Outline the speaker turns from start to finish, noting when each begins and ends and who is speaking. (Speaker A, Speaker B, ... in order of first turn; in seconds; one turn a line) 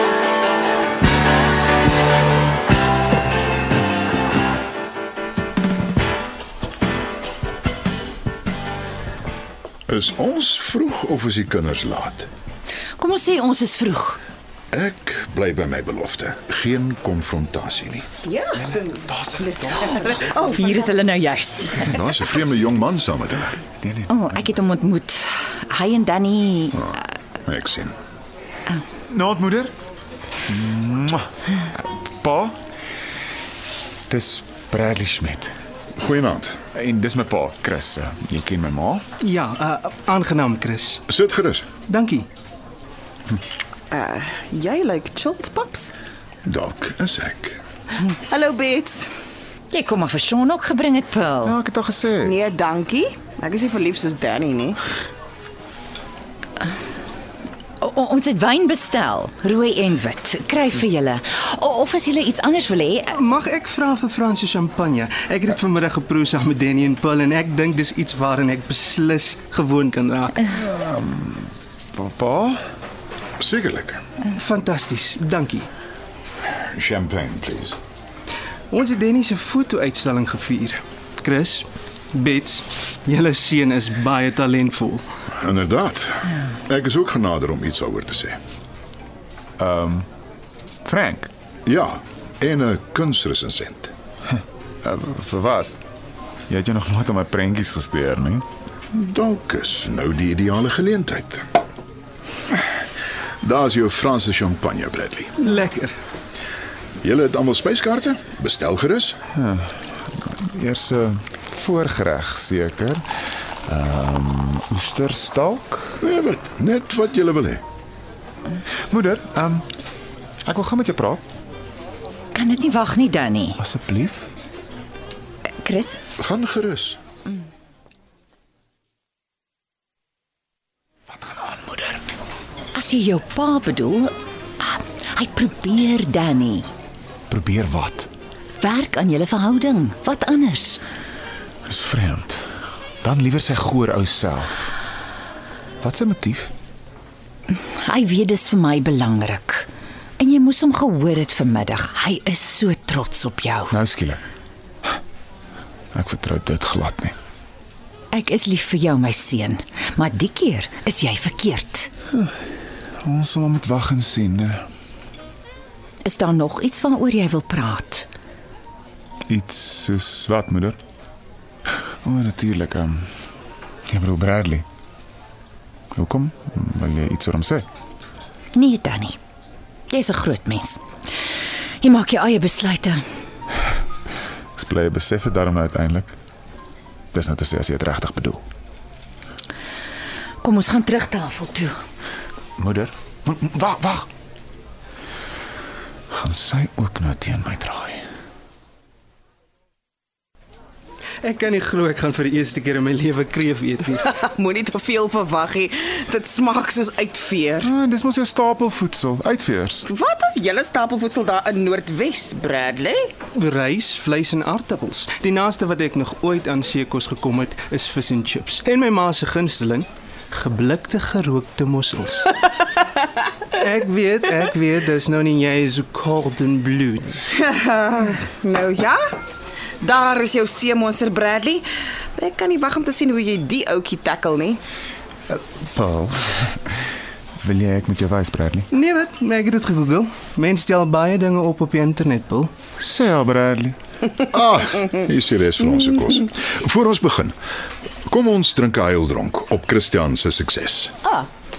Speaker A: 9.9-12.3
Speaker B: 13.0-14.2
Speaker A: 14.7-18.1
Speaker C: 18.2-20.9
Speaker D: 18.7-19.7
Speaker B: 19.8-22.1
Speaker A: 21.8-23.6
Speaker D: 23.8-24.2
Speaker B: 24.1-27.0
Speaker A: 26.8-27.9
Speaker D: 29.1-29.7
Speaker D: 30.5-32.6
Speaker D: 34.1-35.5
Speaker A: 36.0-36.6
Speaker D: 36.7-39.0
Speaker E: 39.2-41.0
Speaker A: 41.1-41.7
Speaker E: 41.9-42.3
Speaker C: 43.9-45.9
Speaker A: 46.5-47.6
Speaker C: 48.1-49.1
Speaker B: 49.7-51.6
Speaker D: 51.4-52.4
Speaker C: 52.2-54.8
Speaker B: 57.8-63.2
Speaker E: 63.1-70.4
Speaker D: 70.5-72.6
Speaker A: 73.4-74.0
Speaker E: 74.3-75.7
Speaker A: 76.6-77.8
Speaker E: 78.7-85.0
Speaker A: 85.4-88.4
Speaker D: 89.6-90.1
Speaker D: 90.8-91.3
Speaker A: 91.7-93.9
Speaker D: 94.3-95.8
Speaker D: 96.5-98.5
Speaker A: 98.9-101.5
Speaker A: 103.4-105.4
Speaker E: 105.4-106.0
Speaker A: 107.0-109.2
Speaker D: 109.3-113.0
Speaker D: 113.7-116.0
Speaker A: 116.0-117.6
Speaker D: 118.9-119.7
Speaker D: 120.4-121.2
Speaker B: 122.3-123.6
Speaker D: 123.6-124.3
Speaker B: 125.6-126.0
Speaker A: 126.2-127.0
Speaker B: 132.8-136.7
Speaker D: 137.3-138.1
Speaker B: 138.6-140.8
Speaker D: 141.7-142.4
Speaker D: 143.0-144.7
Speaker D: 145.8-146.5
Speaker B: 147.5-149.7
Speaker B: 150.2-153.8
Speaker D: 153.7-154.2
Speaker D: 155.9-157.2
Speaker B: 158.1-161.9
Speaker D: 163.0-164.6
Speaker B: 166.0-168.1
Speaker D: 169.3-170.8
Speaker D: 172.0-173.1
Speaker D: 173.9-174.7
Speaker D: 175.9-177.7
Speaker B: 178.6-179.2
Speaker B: 179.9-180.8
Speaker B: 181.8-183.0
Speaker D: 184.6-186.1
Speaker D: 187.1-188.4
Speaker B: 190.4-191.7
Speaker D: 192.6-194.1
Speaker D: 196.1-198.0
Speaker E: 201.2-204.0
Speaker C: 204.0-207.7
Speaker D: 207.6-209.9
Speaker C: 209.9-213.1
Speaker E: 213.3-222.4
Speaker E: 223.5-227.2
Speaker C: 227.3-229.0
Speaker C: 229.8-231.7
Speaker C: 232.2-234.6
Speaker D: 235.3-236.8
Speaker D: 237.4-238.7
Speaker E: 238.7-242.5
Speaker D: 242.8-243.8
Speaker A: 244.2-247.3
Speaker A: 248.1-251.1